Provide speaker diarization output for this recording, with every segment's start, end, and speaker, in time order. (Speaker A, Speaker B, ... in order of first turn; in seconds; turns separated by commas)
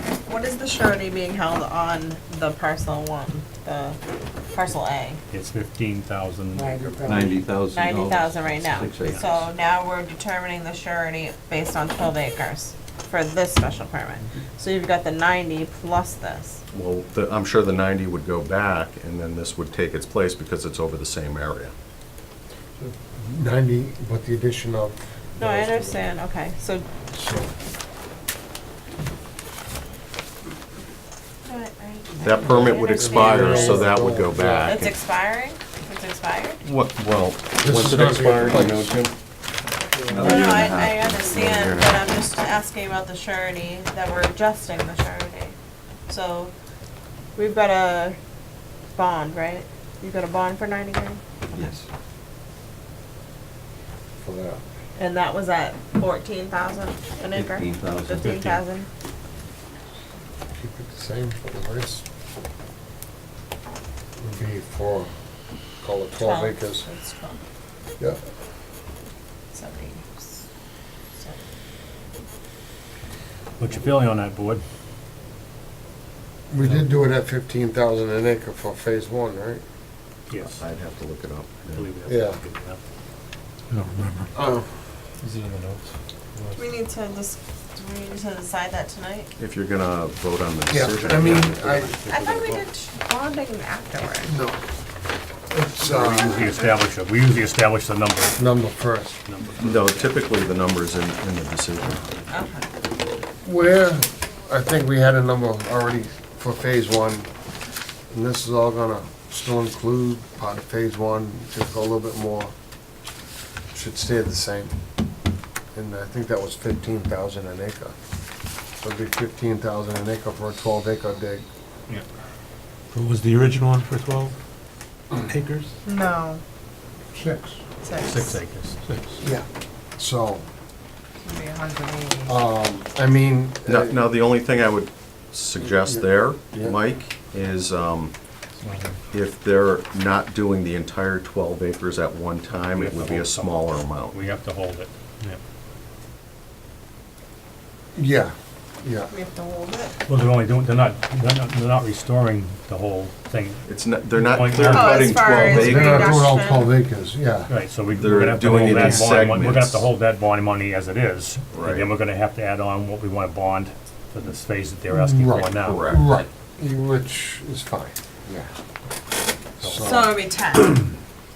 Speaker A: 0.3-4.0, Speaker A: 4.5-5.2, Speaker B: 5.3-6.7, Speaker A: 6.5-16.6, Speaker C: 7.0-9.4, Speaker D: 16.7-21.7, Speaker E: 22.8-26.0, Speaker A: 25.4-26.9, Speaker E: 27.1-27.5, Speaker A: 31.4-33.9, Speaker E: 32.2-34.8, Speaker D: 32.2-34.9, Speaker A: 34.6-36.6, Speaker D: 36.6-39.1, Speaker E: 37.6-39.0, Speaker E: 40.0-40.5, Speaker A: 40.1-45.5, Speaker D: 40.1-42.0, Speaker C: 40.3-40.8, Speaker A: 46.1-46.5, Speaker A: 47.4-48.2, Speaker A: 49.0-51.7, Speaker C: 51.5-51.9, Speaker E: 54.2-54.6, Speaker A: 55.0-58.9, Speaker C: 57.3-58.4, Speaker B: 58.2-58.6, Speaker E: 60.6-62.0, Speaker E: 64.2-65.1, Speaker E: 65.8-66.8, Speaker A: 66.2-67.4, Speaker A: 69.5-70.5, Speaker B: 73.6-74.6, Speaker E: 76.5-79.6, Speaker B: 76.6-76.8, Speaker B: 80.3-80.6, Speaker D: 80.4-81.9, Speaker B: 81.7-82.8, Speaker E: 82.1-82.4, Speaker F: 83.7-84.3, Speaker E: 84.3-84.7, Speaker F: 85.2-86.5, Speaker A: 86.6-89.3, Speaker D: 89.4-91.6, Speaker E: 90.7-92.0, Speaker B: 91.0-92.7, Speaker A: 92.1-94.4, Speaker E: 94.3-94.6, Speaker E: 95.5-96.5, Speaker B: 95.8-98.4, Speaker E: 98.4-99.2, Speaker B: 99.2-100.2, Speaker D: 99.6-102.1, Speaker A: 102.3-102.7, Speaker E: 103.4-107.3, Speaker E: 108.1-112.5, Speaker E: 113.7-114.7, Speaker E: 115.7-118.0, Speaker E: 118.8-121.4, Speaker F: 122.9-124.3, Speaker F: 125.2-125.8, Speaker A: 125.8-126.4, Speaker E: 127.1-127.6, Speaker A: 127.8-128.4, Speaker B: 128.0-128.8, Speaker F: 128.9-129.1, Speaker E: 129.2-129.5, Speaker E: 130.0-130.4, Speaker A: 131.2-132.4, Speaker E: 132.2-134.0, Speaker D: 133.7-138.1, Speaker E: 135.8-136.8, Speaker D: 139.1-144.2, Speaker B: 142.7-145.4, Speaker E: 147.9-149.1, Speaker A: 149.1-150.0, Speaker B: 150.1-155.7, Speaker D: 153.7-156.2, Speaker A: 154.7-156.7, Speaker E: 155.3-157.5, Speaker B: 157.5-165.9, Speaker D: 157.9-159.9, Speaker D: 161.5-161.9, Speaker E: 164.9-168.5, Speaker D: 165.5-166.2, Speaker E: 169.6-170.2, Speaker B: 169.6-170.0, Speaker A: 169.8-170.9